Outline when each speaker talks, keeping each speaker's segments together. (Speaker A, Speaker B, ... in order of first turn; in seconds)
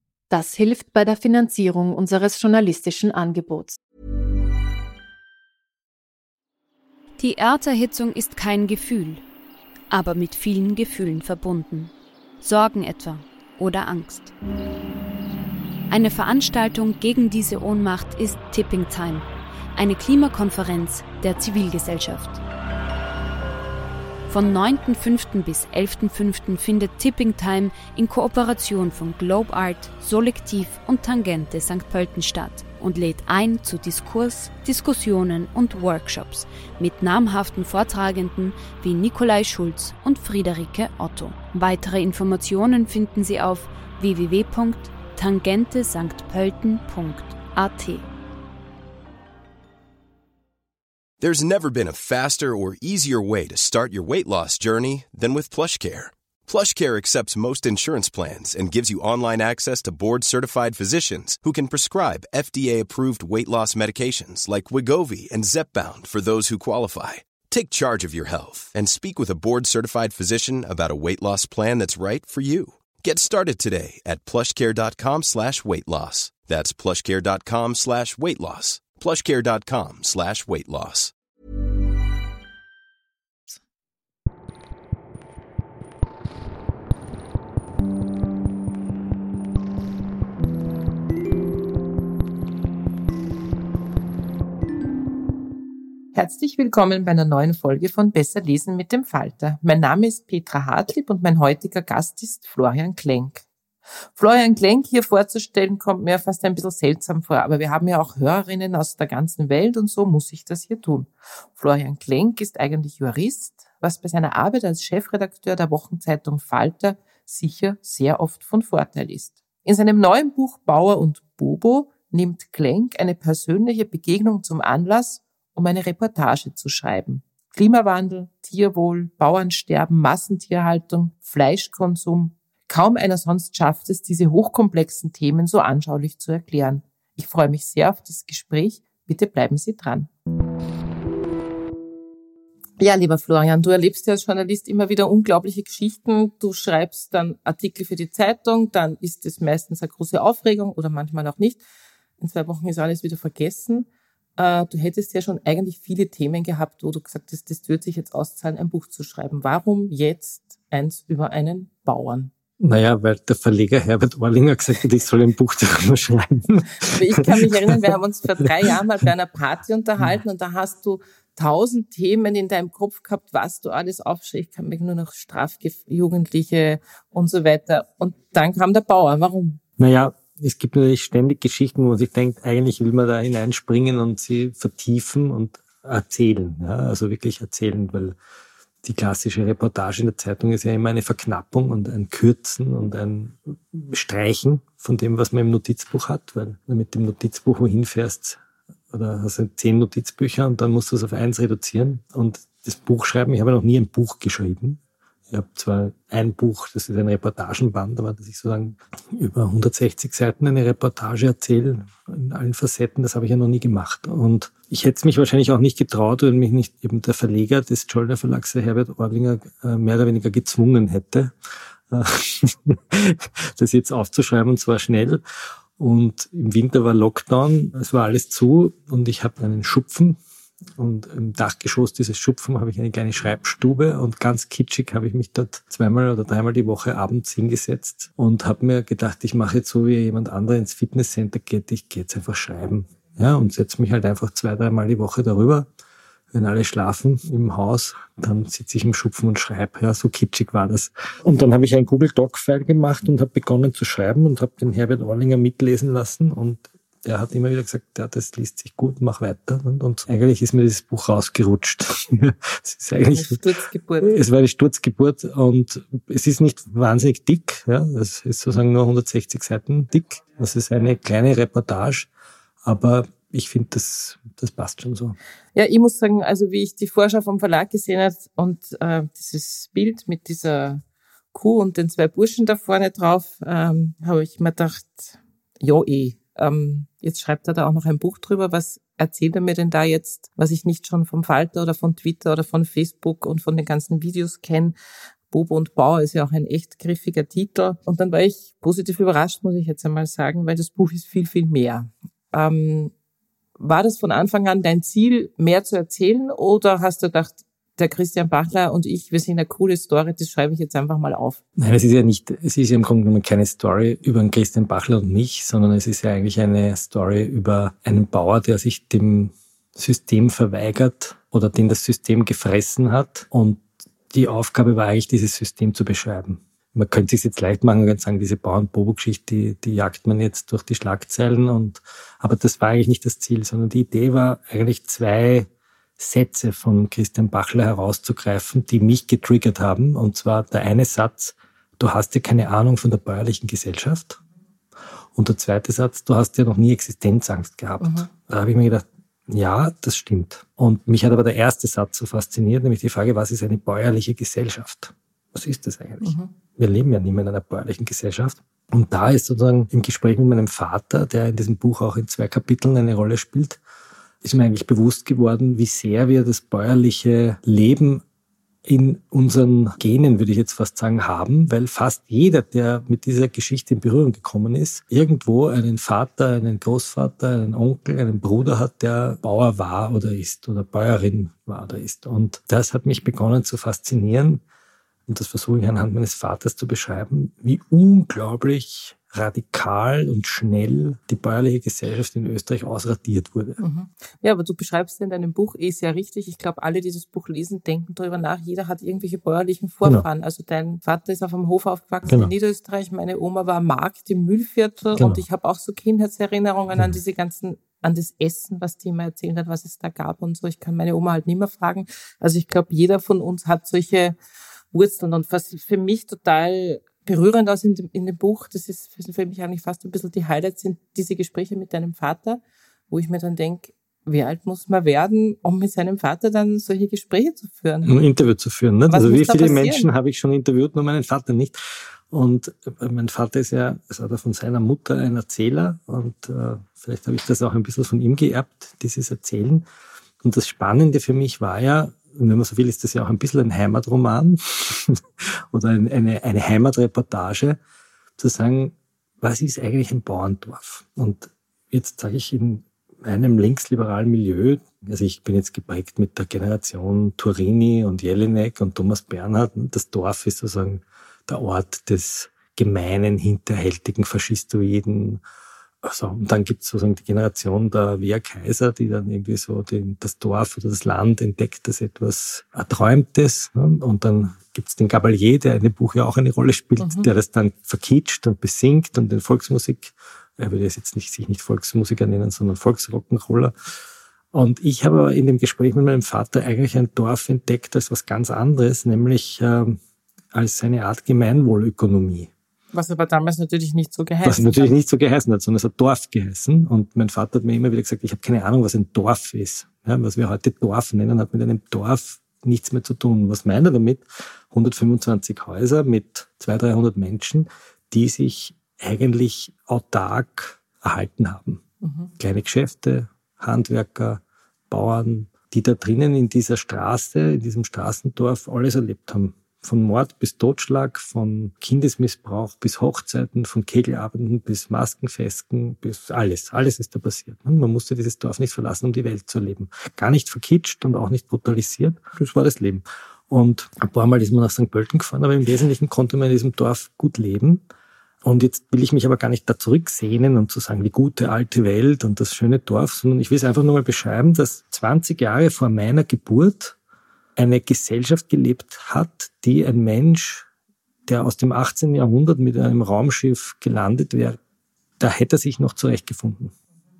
Speaker A: 0.3-3.8
Speaker B: 7.2-9.2, 9.9-14.3, 15.9-22.4, 24.3-48.1
Speaker C: 51.2-81.1
Speaker D: 96.1-103.5, 104.2-140.1, 142.8-151.6, 152.2-162.3, 166.8-179.6, 263.1-264.2, 275.6-280.8, 281.3-294.8, 295.3-302.9, 303.6-311.4, 347.8-348.1, 356.0-356.3, 393.6-414.2, 414.7-427.9, 428.9-429.9, 476.8-477.1, 492.7-494.7, 511.8-512.1
Speaker E: 162.6-167.8, 179.8-188.2, 188.8-221.3, 221.9-225.2, 225.8-230.2, 230.8-245.7, 246.3-263.4, 264.0-272.1, 272.6-275.2, 311.6-344.2, 345.1-363.6, 364.2-368.0, 368.6-384.4, 385.1-393.6, 405.0-405.2, 427.9-439.7, 440.2-447.6, 448.2-465.2, 465.8-483.5, 484.3-489.8, 490.3-492.3, 494.2-511.6, 512.2-537.6, 538.2-546.8, 547.4-550.5, 551.1-554.4, 555.0-556.5